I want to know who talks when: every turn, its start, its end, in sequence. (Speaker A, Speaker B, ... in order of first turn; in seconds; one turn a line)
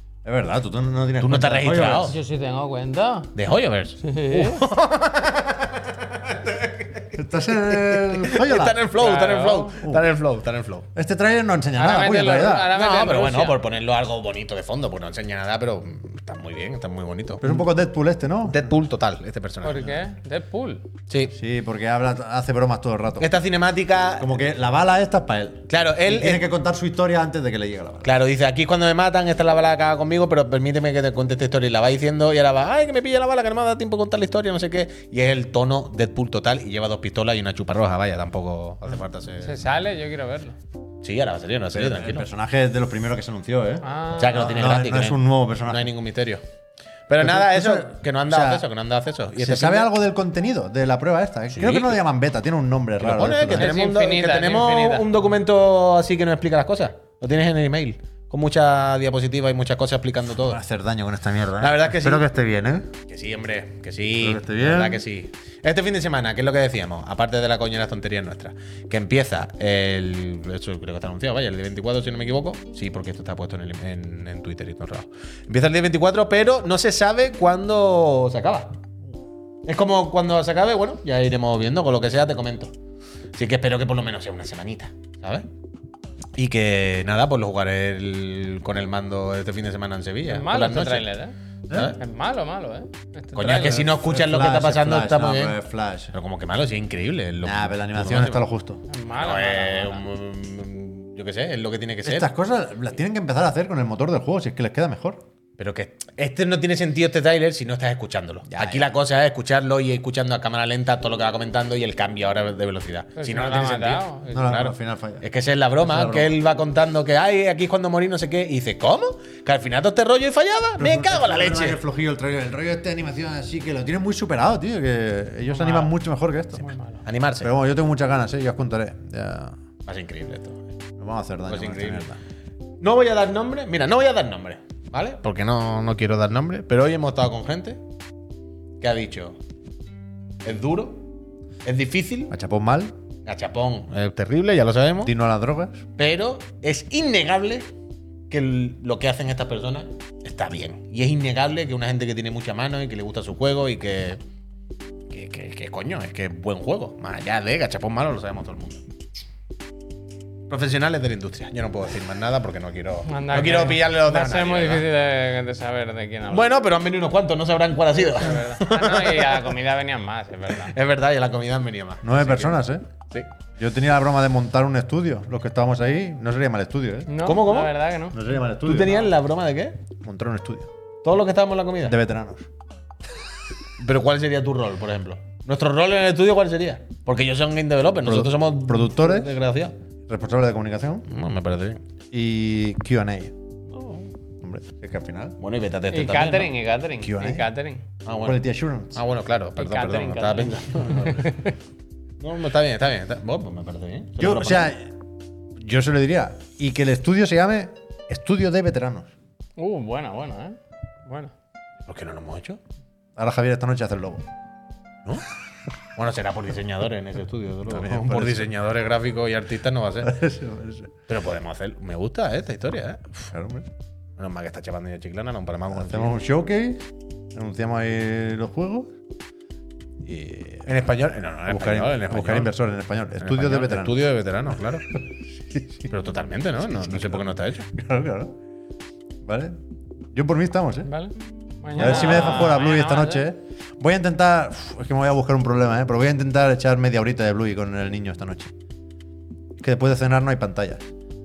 Speaker A: 0.2-2.1
Speaker B: 1.2-2.2
Speaker C: 2.0-3.3
Speaker B: 3.4-10.9
Speaker C: 4.0-4.6
Speaker A: 7.1-8.8
Speaker C: 8.9-9.8
Speaker A: 10.9-12.7
Speaker C: 11.8-13.6
Speaker B: 12.7-17.6
Speaker A: 17.4-18.8
Speaker B: 18.5-20.0
Speaker C: 19.6-20.9
Speaker A: 21.3-23.3
Speaker B: 23.2-24.4
Speaker A: 24.2-28.1
Speaker B: 25.7-26.4
Speaker B: 28.0-39.7
Speaker C: 39.4-40.6
Speaker B: 41.0-42.3
Speaker A: 41.7-45.9
Speaker C: 43.8-44.5
Speaker B: 44.2-46.4
Speaker B: 47.1-49.9
Speaker A: 47.2-48.7
Speaker A: 49.4-53.7
Speaker B: 51.5-52.0
Speaker B: 53.0-60.6
Speaker C: 53.5-55.1
Speaker A: 60.4-62.9
Speaker B: 61.6-62.3
Speaker B: 63.1-78.8
Speaker A: 64.2-65.0
Speaker B: 79.7-82.7
Speaker B: 83.3-85.5
Speaker B: 86.4-91.1
Speaker C: 90.3-91.3
Speaker A: 91.7-92.0
Speaker B: 91.7-92.0
Speaker C: 92.0-93.9
Speaker B: 93.4-95.6
Speaker A: 93.5-96.1
Speaker B: 96.1-98.4
Speaker A: 97.4-98.8
Speaker C: 98.9-100.0
Speaker B: 99.2-102.3
Speaker A: 102.0-105.2
Speaker B: 105.6-121.8
Speaker A: 108.5-108.9
Speaker C: 113.2-114.5
Speaker A: 114.3-115.2
Speaker A: 115.8-116.4
Speaker A: 120.8-126.7
Speaker C: 125.5-125.9
Speaker C: 126.6-127.0
Speaker B: 127.0-127.5
Speaker A: 127.4-129.6
Speaker B: 129.8-130.7
Speaker A: 131.0-132.2
Speaker B: 131.5-132.1
Speaker B: 132.8-137.8
Speaker B: 138.8-139.4
Speaker B: 140.4-141.0
Speaker B: 141.7-142.3
Speaker A: 142.3-142.9
Speaker B: 143.3-145.1
Speaker A: 145.0-145.8
Speaker B: 146.0-147.7
Speaker B: 148.3-154.2
Speaker B: 155.1-158.8
Speaker B: 160.5-164.8
Speaker C: 163.1-166.5
Speaker B: 166.3-169.5
Speaker C: 167.9-170.7
Speaker B: 170.5-173.3
Speaker A: 172.0-172.8
Speaker A: 173.6-177.1
Speaker C: 177.1-178.2
Speaker B: 177.2-177.8
Speaker A: 178.1-179.1
Speaker B: 178.7-179.8
Speaker A: 180.0-180.7
Speaker B: 181.0-182.0
Speaker A: 181.8-182.5
Speaker B: 183.8-189.8
Speaker A: 188.0-189.3
Speaker A: 190.1-191.1
Speaker B: 191.1-191.8
Speaker A: 192.1-193.3
Speaker B: 193.7-194.1
Speaker A: 194.4-195.4
Speaker B: 195.4-196.5
Speaker C: 195.9-197.8
Speaker A: 197.0-197.5
Speaker B: 198.1-198.4
Speaker A: 198.2-199.0
Speaker B: 198.9-201.3
Speaker C: 199.6-201.6
Speaker B: 202.2-204.7
Speaker A: 204.2-204.9
Speaker A: 205.6-209.1
Speaker C: 209.6-211.3
Speaker B: 211.9-212.6
Speaker A: 213.2-214.2
Speaker B: 216.0-220.1
Speaker A: 217.7-218.5
Speaker A: 220.0-220.9
Speaker B: 221.1-223.3
Speaker A: 223.3-223.7
Speaker B: 224.2-226.2
Speaker A: 225.7-228.9
Speaker A: 230.1-230.7
Speaker B: 230.7-232.5
Speaker A: 231.5-234.0
Speaker B: 233.2-234.9
Speaker A: 235.5-235.9
Speaker B: 235.9-237.7
Speaker A: 236.7-238.3
Speaker A: 239.2-239.6
Speaker A: 240.1-240.9
Speaker C: 240.9-243.3
Speaker A: 241.8-248.5
Speaker B: 241.8-242.6
Speaker A: 249.6-250.9